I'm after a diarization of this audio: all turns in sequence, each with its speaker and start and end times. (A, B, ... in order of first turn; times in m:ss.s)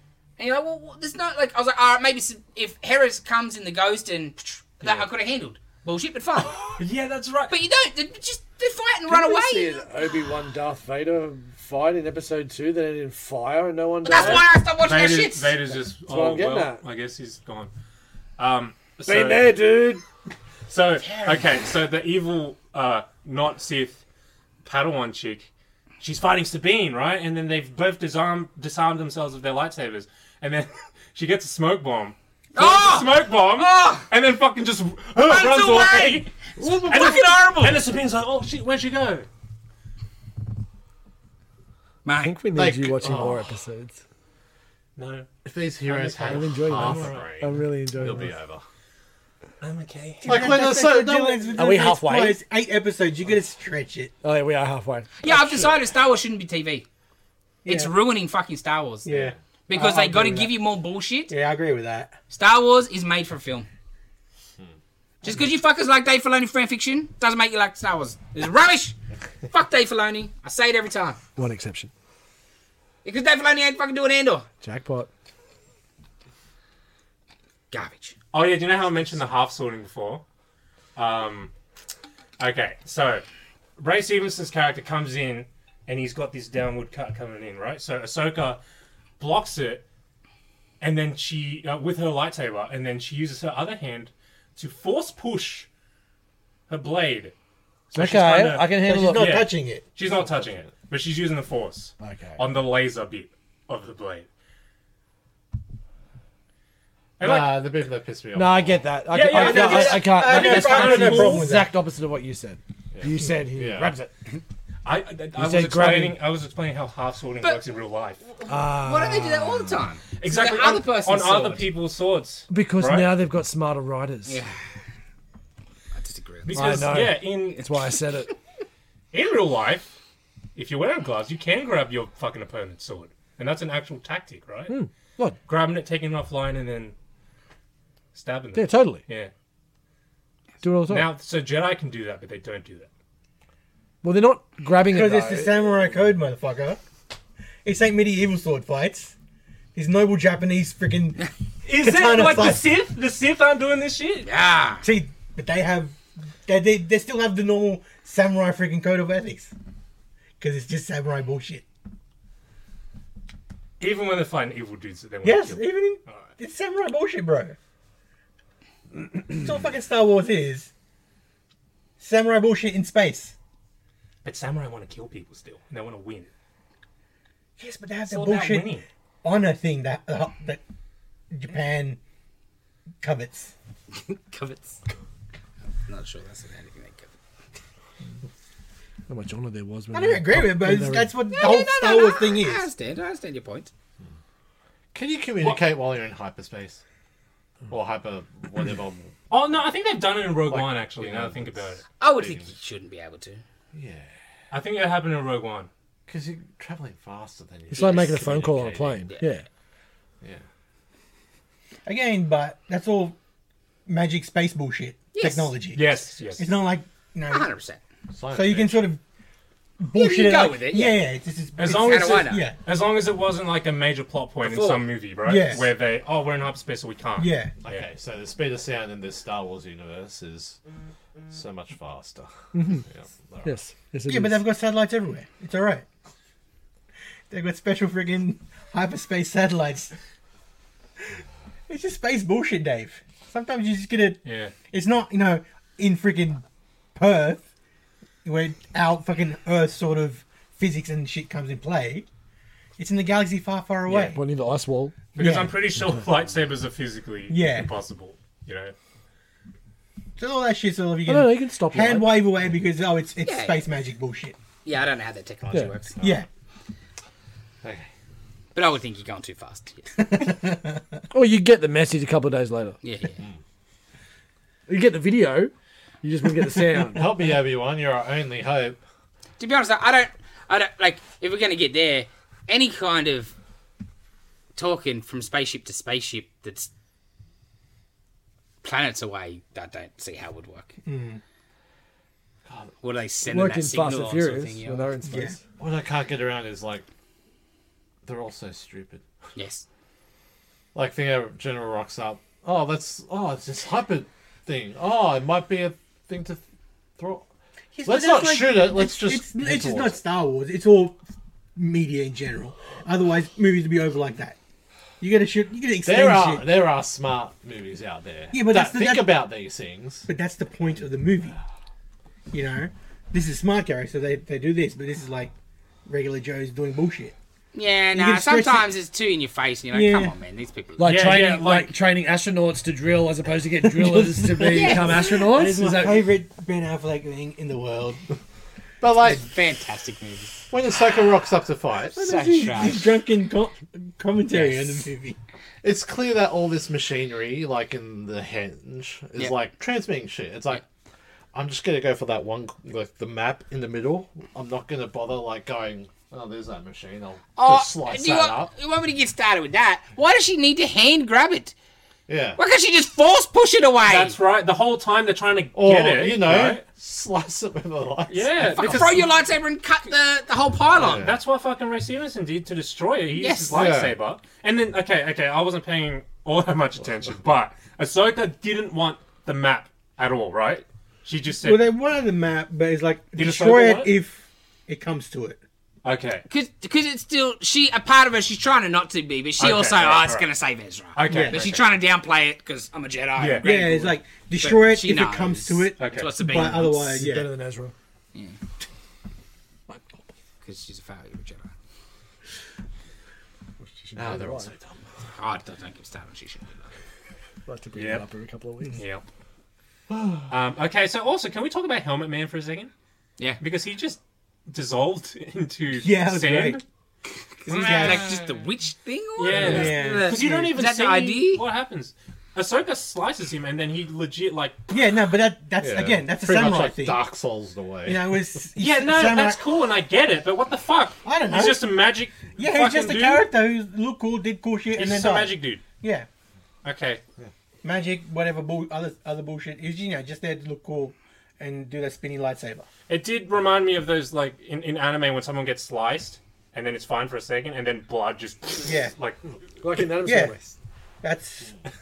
0:00.4-0:06.8 A
0:06.5-0:07.5 B
0:07.5-0:10.1 A
0:09.1-0:14.5 C
0:14.0-0:15.6 A
0:14.1-0:17.7 B
0:16.0-0:16.8 C
0:18.4-0:19.5 B
0:19.1-0:20.0 C
0:20.7-0:24.0 B
0:21.0-0:21.4 A
0:24.6-0:25.5 B
0:26.0-0:39.3 B
0:32.6-0:34.1 A
0:35.2-0:37.8 A
0:42.0-0:42.4 A
0:42.2-0:44.0 C
0:42.6-0:43.5 D
0:45.0-0:45.3 B
0:45.4-0:48.6 D
0:45.8-0:47.3 B
0:46.2-0:48.3 C
0:49.6-0:50.6 B
0:50.2-0:51.6 D
0:50.2-0:54.1 E
0:51.6-0:52.4 C
0:54.2-0:55.1 C
0:55.2-0:56.8 A
0:55.3-0:55.8 D
0:57.6-0:57.9 E
0:57.6-0:59.1 A
0:59.0-1:00.5 E
0:59.1-0:59.4 D
0:59.7-1:01.3 A
1:01.3-1:02.2 E
1:02.3-1:03.7 A
1:05.2-1:09.0 A
1:09.5-1:11.2 A
1:11.4-1:11.9 C
1:13.0-1:14.5 A
1:14.6-1:15.1 C
1:17.7-1:18.2 A
1:18.3-1:20.2 B
1:21.0-1:21.5 B
1:22.4-1:23.2 B
1:23.8-1:28.6 B
1:29.2-1:29.8 B
1:30.8-1:35.7 B
1:36.7-1:37.4 B
1:37.9-1:44.3 B
1:37.9-1:39.4 C
1:38.8-1:39.8 E
1:40.1-1:40.7 D
1:42.0-1:42.4 C
1:47.2-1:47.7 B
1:47.2-1:48.9 D
1:48.3-1:54.1 C
1:49.1-1:51.4 B
1:49.3-1:51.7 E
1:53.0-1:53.9 D
1:54.8-1:58.2 B
1:55.4-1:56.2 C
1:58.3-2:01.7 A
1:58.5-1:59.8 C
2:00.2-2:03.1 B
2:02.5-2:04.4 C
2:04.3-2:04.6 A
2:05.9-2:06.7 A
2:06.4-2:07.7 B
2:06.5-2:08.3 C
2:09.1-2:10.0 B
2:10.6-2:14.8 B
2:14.7-2:15.4 C
2:15.5-2:17.0 B
2:18.1-2:19.3 B
2:18.5-2:19.0 C
2:20.6-2:21.1 C
2:20.9-2:22.9 B
2:24.0-2:25.5 C
2:24.9-2:26.8 E
2:27.6-2:29.2 E
2:29.8-2:31.3 E
2:31.6-2:34.3 B
2:31.8-2:32.6 E
2:34.2-2:34.8 A
2:34.8-2:39.5 E
2:40.4-2:41.6 E
2:43.8-2:46.3 B
2:45.2-2:47.6 E
2:49.3-2:50.7 E
2:52.0-2:53.4 E
2:54.2-2:56.3 B
2:57.6-3:00.6 E
2:58.1-2:58.9 B
3:01.3-3:02.0 E
3:03.0-3:03.5 E
3:03.9-3:04.8 A
3:05.8-3:07.1 A
3:09.1-3:11.1 C
3:09.9-3:12.7 E
3:11.3-3:13.7 A
3:14.9-3:16.8 D
3:17.7-3:19.1 D
3:19.3-3:21.8 B
3:20.5-3:22.5 D
3:22.0-3:23.4 A
3:23.7-3:24.1 D
3:24.5-3:25.7 B
3:26.1-3:29.1 D
3:27.7-3:29.5 C
3:27.8-3:28.2 A
3:31.8-3:33.2 E
3:33.9-3:37.5 E
3:35.1-3:35.5 A
3:35.7-3:36.5 B
3:37.3-3:37.8 A
3:38.1-3:38.9 D
3:38.3-3:39.0 E
3:39.8-3:42.6 E
3:39.9-3:41.0 A
3:41.6-3:47.9 B
3:41.6-3:42.5 A
3:44.4-3:44.9 A
3:45.2-3:45.7 E
3:47.2-3:47.5 E
3:47.6-3:50.6 D
3:51.3-3:53.6 D
3:52.5-3:52.8 C
3:53.4-3:54.4 C
3:54.1-3:55.9 E
3:57.3-3:59.9 E
4:01.7-4:06.4 E
4:04.2-4:04.5 B
4:07.0-4:07.4 E
4:08.2-4:12.1 E
4:12.8-4:14.2 E
4:13.9-4:15.0 C
4:15.2-4:18.7 B
4:15.2-4:15.6 E
4:17.3-4:17.7 E
4:20.2-4:24.4 E
4:21.1-4:22.2 C
4:23.2-4:23.6 A
4:24.6-4:26.0 A
4:25.5-4:26.2 D
4:26.0-4:26.3 E
4:27.6-4:27.9 D
4:28.6-4:29.9 A
4:30.0-4:31.0 E
4:31.1-4:32.8 C
4:32.8-4:33.2 A
4:34.7-4:37.1 C
4:36.9-4:38.8 D
4:39.4-4:43.3 A
4:44.6-4:46.7 A
4:48.6-4:50.7 A
4:50.8-4:51.2 E
4:52.5-4:52.7 D
4:52.8-4:54.9 A
4:53.2-4:55.4 C
4:55.1-4:55.4 E
4:55.6-4:56.8 D
4:58.0-4:59.0 D
4:59.4-4:59.7 A
5:00.8-5:06.4 D
5:07.0-5:07.2 D
5:07.8-5:11.0 E
5:07.8-5:10.0 D
5:11.6-5:14.4 E
5:15.0-5:16.5 E
5:15.8-5:20.1 D
5:18.3-5:19.2 E
5:20.1-5:21.4 E
5:22.3-5:25.3 E
5:25.9-5:27.1 E
5:27.5-5:30.9 A
5:27.9-5:28.7 E
5:29.7-5:30.1 E
5:30.8-5:36.1 C
5:30.8-5:31.7 B
5:33.6-5:38.1 E
5:34.5-5:35.2 A
5:38.8-5:39.3 D
5:39.0-5:40.4 A
5:40.5-5:42.8 D
5:42.0-5:45.2 E
5:42.0-5:42.9 A
5:44.3-5:44.9 A
5:45.6-5:50.6 D
5:51.3-5:58.5 D
5:57.4-6:01.6 A
6:02.1-6:02.4 D
6:02.4-6:04.2 A
6:03.8-6:06.6 B
6:05.5-6:09.1 D
6:08.1-6:09.0 B
6:08.5-6:11.1 A
6:10.7-6:11.2 D
6:10.8-6:21.7 B
6:13.2-6:13.8 A
6:13.5-6:14.0 D
6:21.4-6:25.4 E
6:23.2-6:23.9 B
6:25.8-6:26.2 B
6:26.3-6:37.0 A
6:29.4-6:30.3 B
6:31.0-6:31.7 B
6:31.1-6:31.4 E
6:33.2-6:33.5 B
6:33.4-6:37.3 E
6:35.8-6:36.1 B
6:36.6-6:37.7 C
6:40.4-6:41.5 A
6:43.6-6:44.5 C
6:44.0-6:44.8 D
6:45.2-6:46.7 A
6:47.5-6:48.8 C
6:47.8-6:48.0 B
6:48.7-6:49.0 B
6:50.3-6:52.7 B
6:53.4-6:56.6 B
6:55.7-6:56.6 E
6:57.4-7:01.4 A
6:57.5-6:58.2 E
6:57.6-6:58.3 B
6:59.2-7:04.6 B
6:59.3-7:00.5 E
7:04.7-7:07.0 E
7:05.6-7:08.2 D
7:07.8-7:09.4 E
7:08.6-7:13.3 B
7:11.0-7:11.7 E
7:12.4-7:16.1 E
7:14.8-7:15.6 B
7:16.6-7:17.0 B
7:17.6-7:22.7 E
7:22.9-7:29.2 B
7:28.7-7:28.9 E
7:29.6-7:30.6 C
7:30.0-7:30.3 E
7:31.0-7:31.6 E